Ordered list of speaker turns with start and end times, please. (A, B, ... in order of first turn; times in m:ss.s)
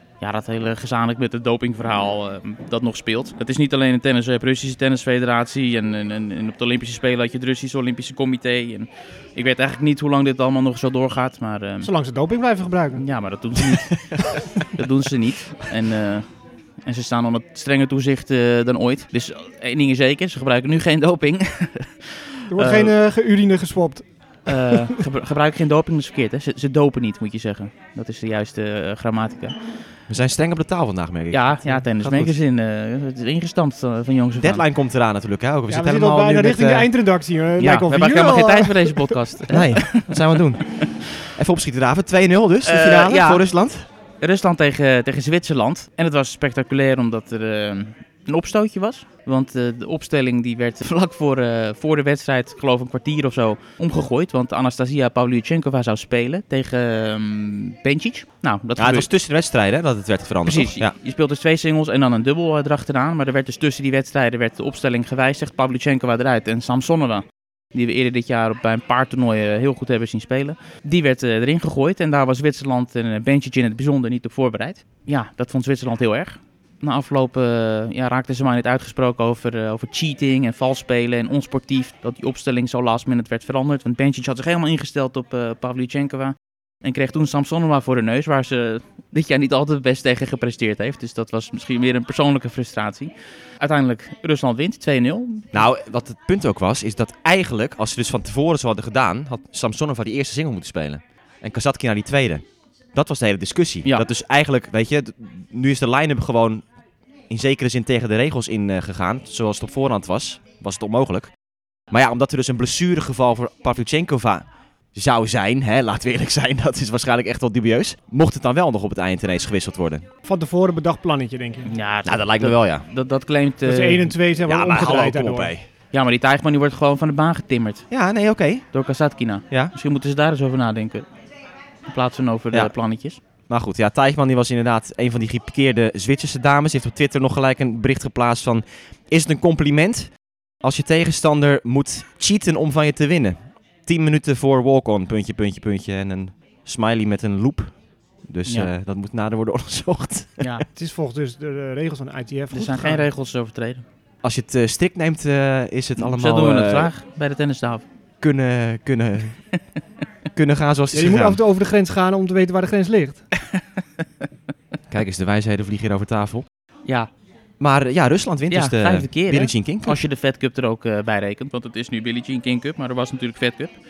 0:00.2-0:11.9 A
0:11.8-0:13.1 B
0:13.0-0:16.3 A
0:16.8-0:22.9 A
0:22.5-0:25.0 B
0:24.5-0:29.6 A
0:30.1-0:32.4 C
0:31.3-0:34.6 A
0:34.4-0:36.9 C
0:35.7-0:39.2 B
0:37.6-0:40.9 A
0:39.5-0:43.9 C
0:42.6-0:43.5 A
0:44.2-0:59.1 A
0:58.8-1:00.9 C
1:00.4-1:35.7 A
1:35.5-1:46.7 C
1:47.3-1:51.4 C
1:51.9-2:00.1 C
2:00.2-2:01.7 B
2:01.7-2:04.2 A
2:02.0-2:02.9 C
2:03.6-2:05.6 B
2:04.4-2:05.7 C
2:05.9-2:07.9 A
2:07.9-2:08.7 C
2:08.7-2:11.1 A
2:11.9-2:13.2 A
2:13.5-2:30.6 C
2:28.5-2:28.7 A
2:30.8-2:33.1 B
2:32.5-2:33.8 A
2:34.2-2:36.9 C
2:36.0-2:37.8 A
2:38.2-2:39.4 C
2:40.4-2:41.4 C
2:40.9-2:43.3 B
2:44.9-2:46.5 C
2:47.6-2:50.0 C
2:48.5-2:53.8 A